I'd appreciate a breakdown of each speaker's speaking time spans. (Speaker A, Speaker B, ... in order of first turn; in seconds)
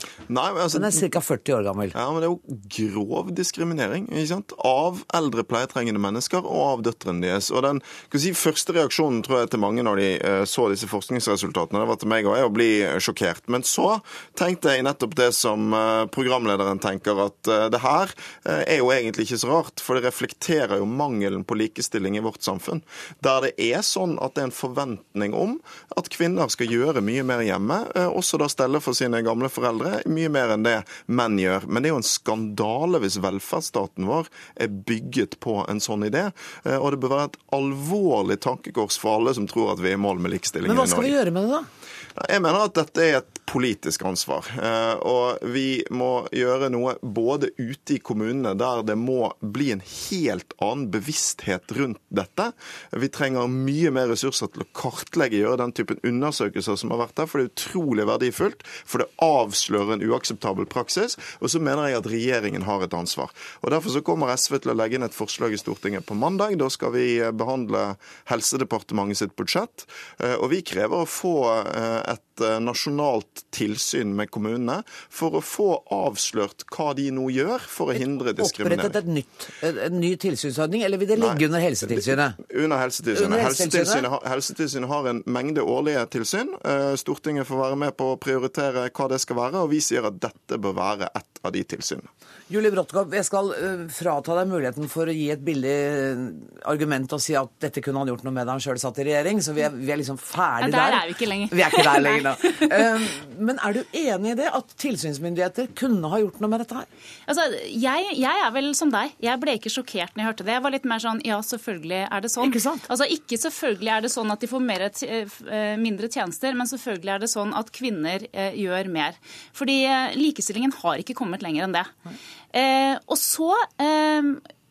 Speaker A: 0.3-1.0, 1.9-41.1, 42.1-79.0, 81.2-92.1
Speaker B: 0.7-2.0, 40.6-41.7, 77.9-82.4, 83.1-84.1, 92.5-106.9, 112.4-112.8
Speaker C: 100.6-102.9, 107.3-121.9, 122.5-124.4